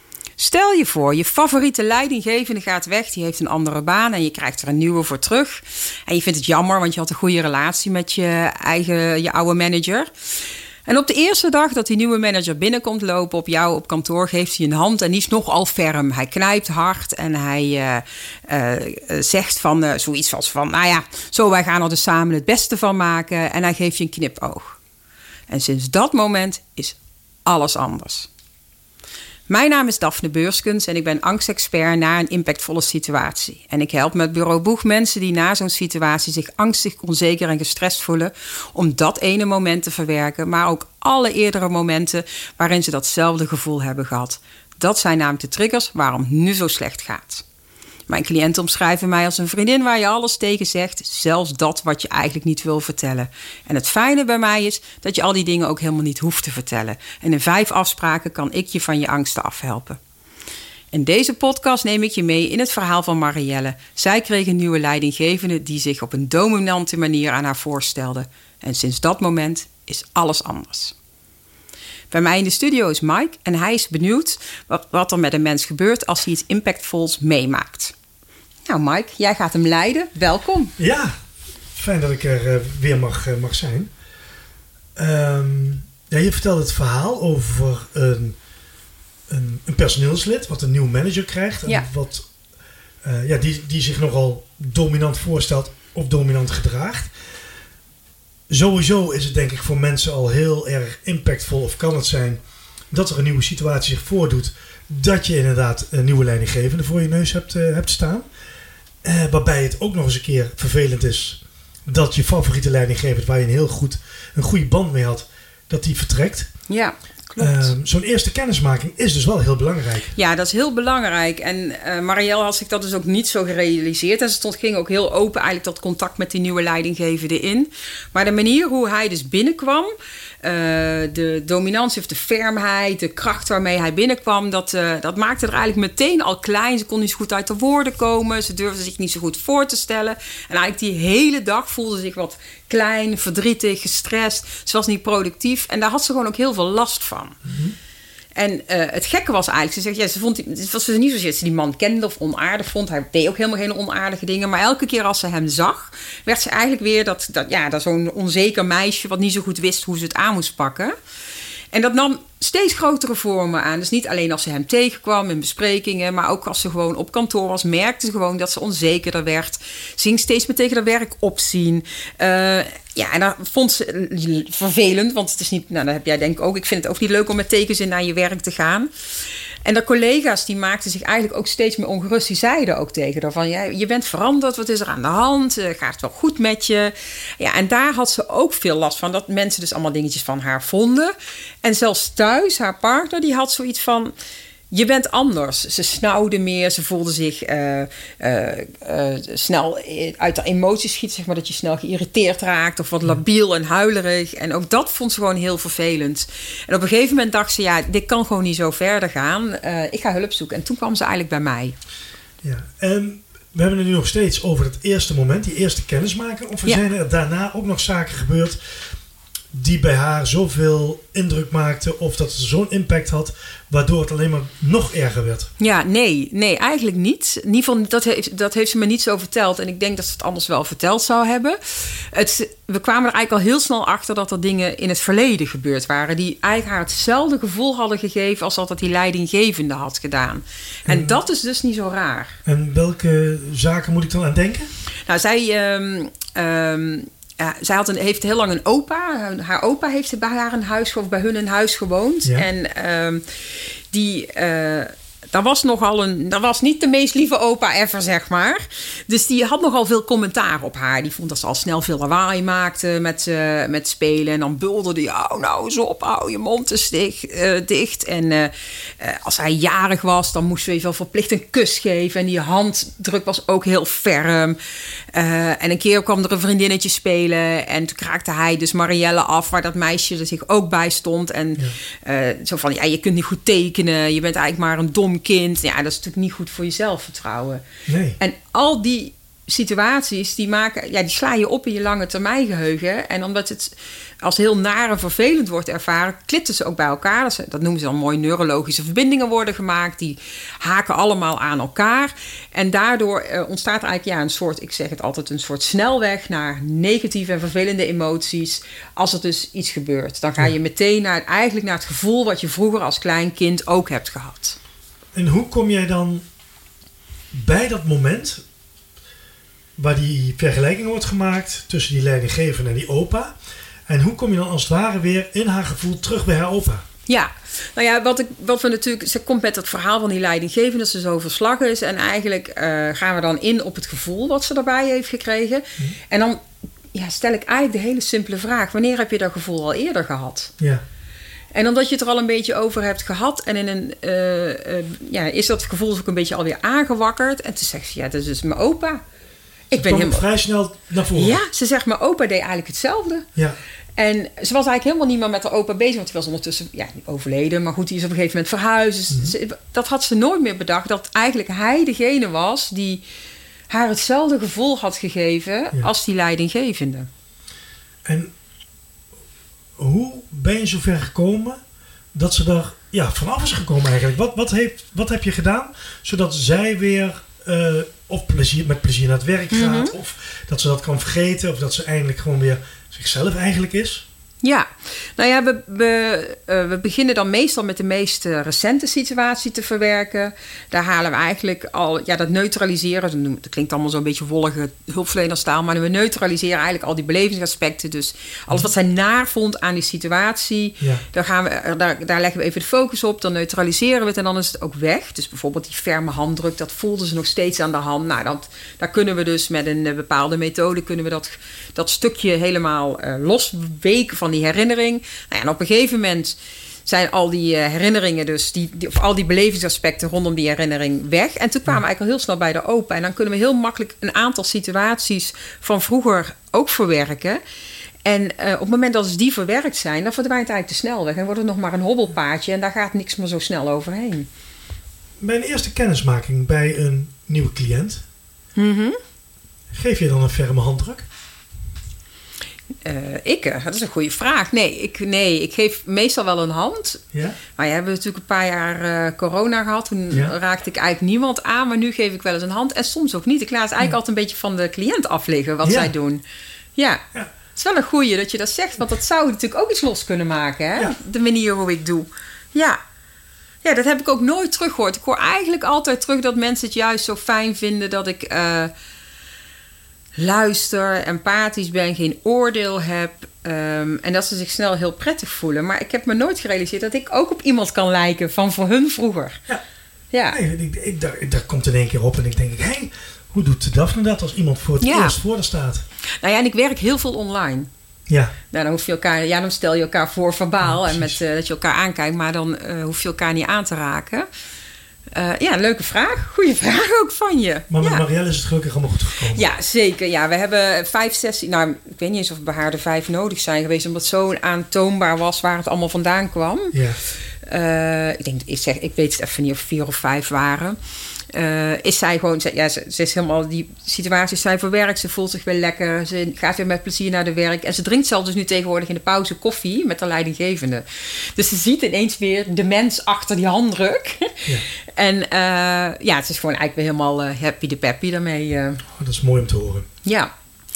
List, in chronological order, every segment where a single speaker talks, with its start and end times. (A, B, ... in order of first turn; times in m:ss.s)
0:00.4-0:10.1 A
0:10.9-0:24.8 A
0:25.5-0:28.3 A
0:29.5-0:47.4 A
0:48.1-1:00.0 A
1:00.9-1:11.0 A
1:12.1-1:18.0 A
1:18.7-1:20.7 A
1:20.8-1:21.1 B
1:21.7-1:23.9 B
1:25.0-1:28.4 B
1:29.3-1:32.3 B
1:33.0-1:37.1 B
1:38.5-1:42.4 B
1:42.9-1:48.3 B
1:49.0-1:56.5 B
1:56.7-1:57.7 A
1:57.4-2:00.2 B
2:00.2-2:27.4 A
2:27.4-2:27.7 B
2:28.4-2:41.0 A
2:41.7-2:58.9 A
2:59.6-3:14.1 A
3:14.7-3:31.8 A
3:32.4-3:38.6 B
3:39.5-3:45.5 B
3:45.6-4:02.4 A
4:00.9-4:01.1 B
4:02.5-4:04.7 B
4:05.1-4:13.2 A
4:13.9-4:34.6 A
4:35.1-4:47.6 A
4:47.9-4:48.2 B
4:48.2-5:14.6 A
5:15.1-5:16.2 B
5:17.3-5:18.4 B
5:19.8-5:23.3 B
5:23.9-5:26.8 B
5:27.1-5:36.4 A
5:36.9-5:40.5 A
5:41.5-5:49.0 A
5:49.7-5:50.2 A
5:49.8-5:51.4 B
5:51.1-5:53.3 A
5:54.0-6:03.0 A
6:03.7-6:07.1 A
6:08.0-6:08.3 B
6:09.8-6:11.6 B
6:12.1-6:24.0 B
6:19.5-6:19.9 A
6:24.4-7:07.4 A
7:08.0-7:14.3 A
7:15.2-7:18.0 B
7:18.6-7:19.0 A
7:19.7-7:21.1 B
7:22.8-7:27.0 A
7:27.1-7:27.4 B
7:27.6-7:36.2 A
7:35.6-7:35.9 B
7:36.8-7:37.0 A
7:37.5-7:42.8 A
7:43.6-7:48.7 A
7:50.2-7:59.4 A
8:00.1-8:00.4 A
8:00.3-8:05.8 B
8:04.8-8:05.2 A
8:06.2-8:07.7 A
8:08.1-8:08.3 B
8:08.5-8:14.3 A
8:10.6-8:11.2 B
8:15.1-8:18.0 A
8:17.7-8:19.4 B
8:19.3-8:26.8 A
8:26.7-8:27.0 B
8:27.4-8:30.8 A
8:31.3-8:48.8 A
8:48.9-8:49.9 B
8:50.0-8:50.3 A